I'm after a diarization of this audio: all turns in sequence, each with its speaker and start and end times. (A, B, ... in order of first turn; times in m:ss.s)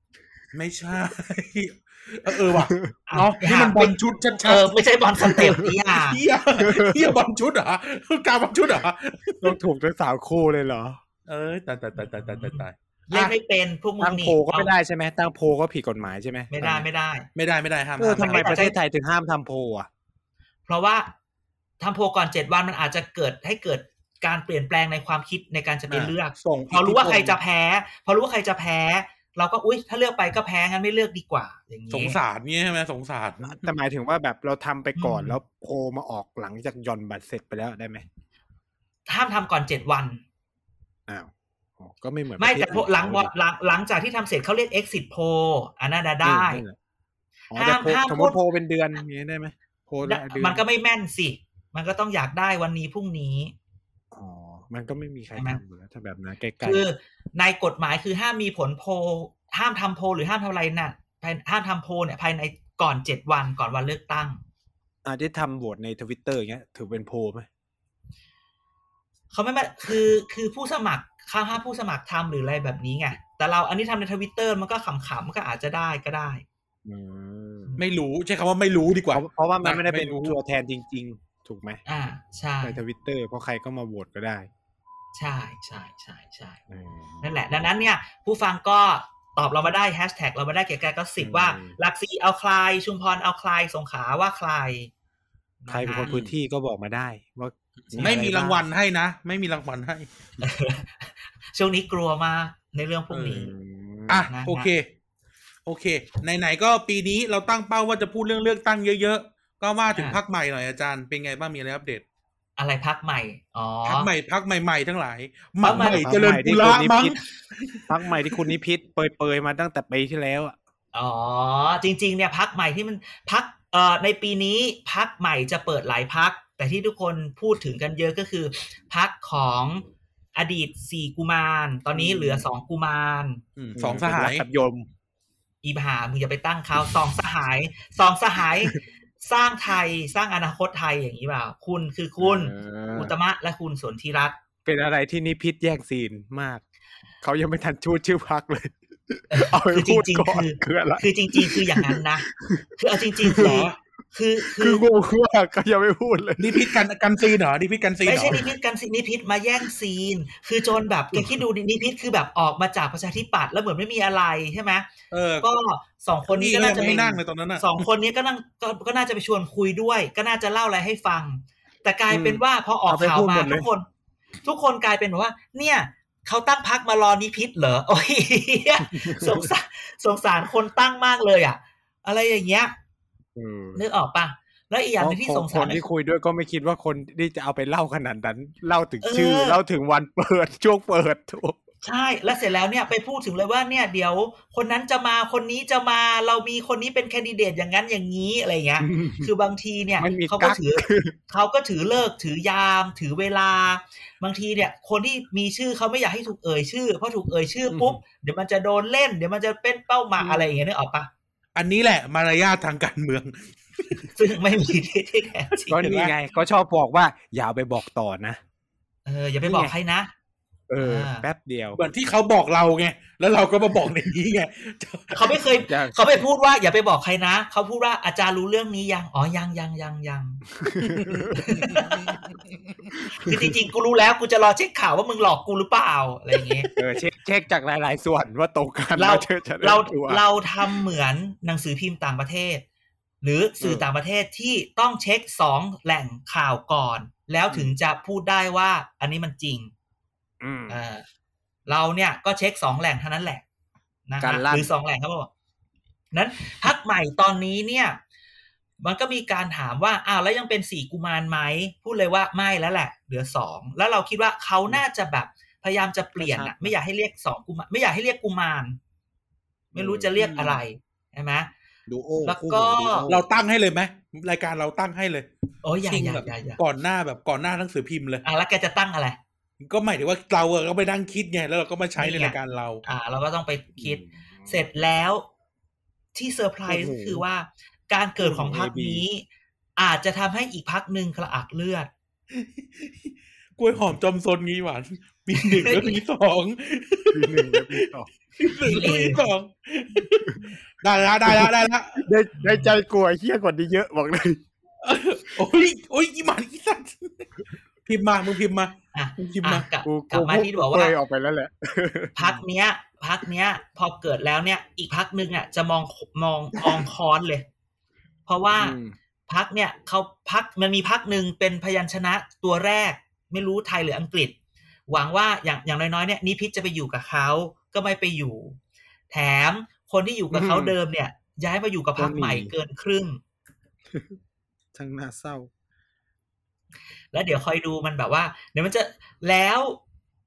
0:00.5-0:04.7 A
0:02.4-0:02.9 B
0:03.1-0:06.2 C
0:05.2-0:09.6 A
0:05.4-0:05.7 B
0:06.6-0:07.1 B
0:09.4-0:11.0 B
0:11.3-0:13.3 A
0:12.0-0:14.7 C
0:14.0-0:16.9 B
0:16.5-0:17.3 C
0:17.4-0:18.6 A
0:18.0-0:19.9 B
0:18.2-0:18.8 C
0:20.7-0:21.1 C
0:21.8-0:32.2 C
0:25.9-0:26.2 B
0:26.4-0:27.4 A
0:31.9-0:33.7 A
0:33.4-0:38.0 B
0:35.0-0:35.4 C
0:39.1-0:40.2 C
0:41.1-0:43.3 B
0:42.4-0:46.6 C
0:46.2-0:46.8 B
0:47.5-0:50.6 B
0:47.6-0:48.4 C
0:50.0-0:53.5 C
0:54.1-0:56.8 B
0:56.6-1:04.4 C
1:05.0-1:07.5 B
1:09.3-1:16.4 C
1:16.8-1:17.8 B
1:17.8-1:20.4 A
1:19.1-1:21.8 B
1:21.9-1:22.8 C
1:22.6-1:24.5 B
1:25.2-1:26.6 C
1:26.7-1:27.5 B
1:27.2-1:34.9 C
1:31.2-1:31.8 B
1:35.6-1:36.2 C
1:35.7-1:38.6 B
1:36.0-1:36.3 A
1:37.9-1:40.1 A
1:40.4-1:43.5 C
1:43.1-1:43.5 A
1:43.4-1:44.3 B
1:44.1-1:44.9 A
1:44.3-1:44.7 C
1:45.7-1:52.0 A
1:52.6-1:54.1 C
1:53.8-1:58.5 A
1:55.6-1:56.1 C
1:55.7-1:57.2 B
1:57.9-2:00.6 B
2:00.9-2:13.4 C
2:11.9-2:12.5 B
2:13.6-2:14.4 A
2:13.8-2:14.9 B
2:15.6-2:24.4 C
2:22.2-2:23.1 B
2:24.6-2:26.6 B
2:27.2-2:32.7 B
2:29.3-2:34.9 C
2:33.2-2:33.7 B
2:33.4-2:33.8 A
2:34.4-2:36.8 B
2:36.4-2:38.5 A
2:38.0-2:44.9 C
2:38.2-2:38.5 B
2:41.2-2:41.4 B
2:45.1-2:45.5 A
2:45.4-2:53.9 C
2:46.3-2:47.8 A
2:52.1-2:53.7 B
2:54.4-3:02.7 C
2:58.9-2:59.5 B
3:03.4-3:03.8 B
3:03.8-3:05.8 C
3:05.0-3:11.6 B
3:09.0-3:09.6 C
3:11.8-3:31.1 C
3:18.8-3:19.3 B
3:20.0-3:21.2 B
3:27.7-3:28.0 B
3:30.2-3:30.6 B
3:31.6-3:34.1 A
3:34.2-3:36.1 C
3:35.7-3:38.4 B
3:35.8-3:36.1 A
3:39.1-3:40.1 C
3:39.4-3:39.7 B
3:40.7-3:41.8 B
3:40.8-3:41.3 C
3:41.8-3:45.4 A
3:45.1-3:50.4 C
3:45.6-3:46.2 B
3:50.6-3:51.3 B
3:50.8-3:52.7 A
3:51.3-3:52.2 C
3:53.1-3:56.7 C
3:53.2-3:53.5 B
3:56.8-4:00.2 B
3:59.0-4:02.6 C
4:03.2-4:09.7 C
4:03.6-4:03.9 B
4:07.5-4:07.8 B
4:10.4-4:10.8 B
4:10.7-4:11.0 C
4:11.7-4:13.4 C
4:14.1-4:15.3 C
4:14.2-4:14.7 B
4:16.1-4:18.0 C
4:18.8-4:28.8 C
4:26.2-4:26.7 B
4:29.7-4:31.5 C
4:29.8-4:30.2 B
4:30.2-4:30.6 A
4:31.9-4:33.2 B
4:32.2-4:33.1 C
4:33.1-4:35.3 A
4:35.6-4:36.6 C
4:35.8-4:38.2 A
4:38.2-4:39.2 C
4:39.6-4:42.8 A
4:42.0-4:45.3 C
4:43.8-4:44.6 B
4:46.1-4:51.9 C
4:46.7-4:47.2 B
4:48.2-4:49.1 B
4:52.3-4:57.9 A
4:55.4-4:56.0 C
4:57.1-4:58.1 B
4:58.4-5:02.0 A
4:58.6-4:59.3 C
5:01.2-5:04.4 B
5:02.4-5:02.8 C
5:04.8-5:07.3 A
5:07.9-5:09.7 A
5:08.9-5:11.0 C
5:09.8-5:12.4 B
5:12.2-5:17.5 C
5:16.6-5:16.9 B
5:18.3-5:24.4 C
5:18.6-5:19.0 B
5:24.9-5:28.6 C
5:29.1-5:33.2 C
5:30.3-5:30.8 B
5:32.0-5:32.5 B
5:33.9-5:34.2 B
5:34.7-5:35.5 B
5:37.1-5:39.8 C